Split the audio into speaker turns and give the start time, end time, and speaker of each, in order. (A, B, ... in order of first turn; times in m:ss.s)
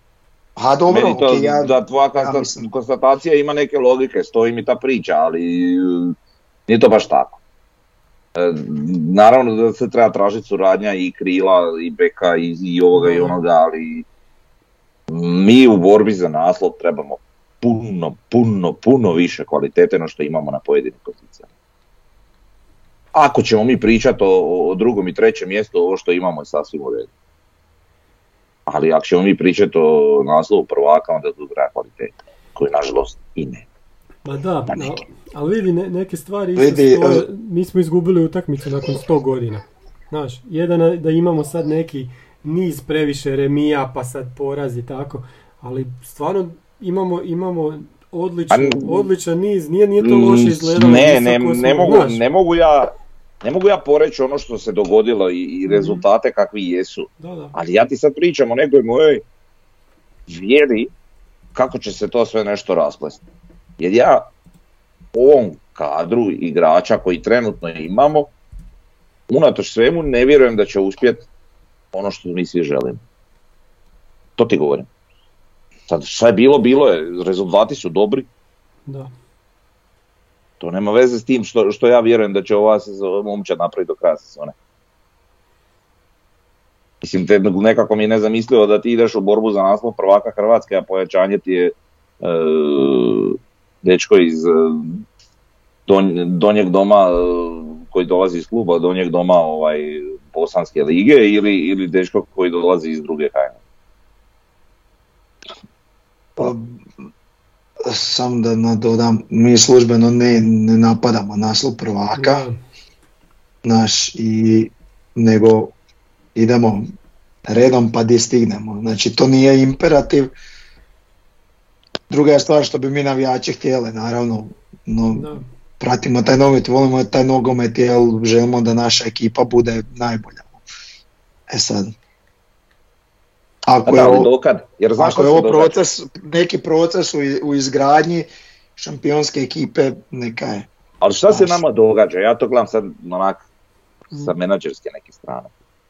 0:00.6-0:02.7 A
0:00.9-0:06.2 B
0:06.7-0:07.4 B
0:08.4-0:14.1 B
0:13.0-0:13.4 C
0:15.1-0:21.5 B
0:23.1-0:27.1 B
0:28.7-0:33.6 B
0:34.2-0:52.2 C
0:36.6-0:37.3 A
0:48.5-0:49.1 B
0:50.0-0:59.2 B
0:55.7-0:56.0 C
0:57.2-0:57.5 C
1:00.3-1:00.9 B
1:01.6-1:03.2 B
1:03.8-1:04.3 B
1:05.1-1:08.3 B
1:09.3-1:11.2 B
1:11.9-1:13.0 B
1:14.4-1:14.9 B
1:15.9-1:18.3 B
1:20.6-1:24.5 B
1:27.0-1:35.0 B
1:35.9-1:43.6 B
1:46.4-1:46.8 A
1:47.8-1:52.4 A
1:52.2-1:52.6 C
1:53.6-1:55.7 A
1:56.4-1:56.9 A
1:57.5-2:00.3 A
2:02.1-2:10.5 A
2:05.2-2:05.4 C
2:11.5-2:11.9 A
2:13.7-2:14.3 A
2:13.8-2:15.8 B
2:15.0-2:20.7 A
2:21.0-2:23.4 B
2:21.3-2:21.6 A
2:24.1-2:25.5 B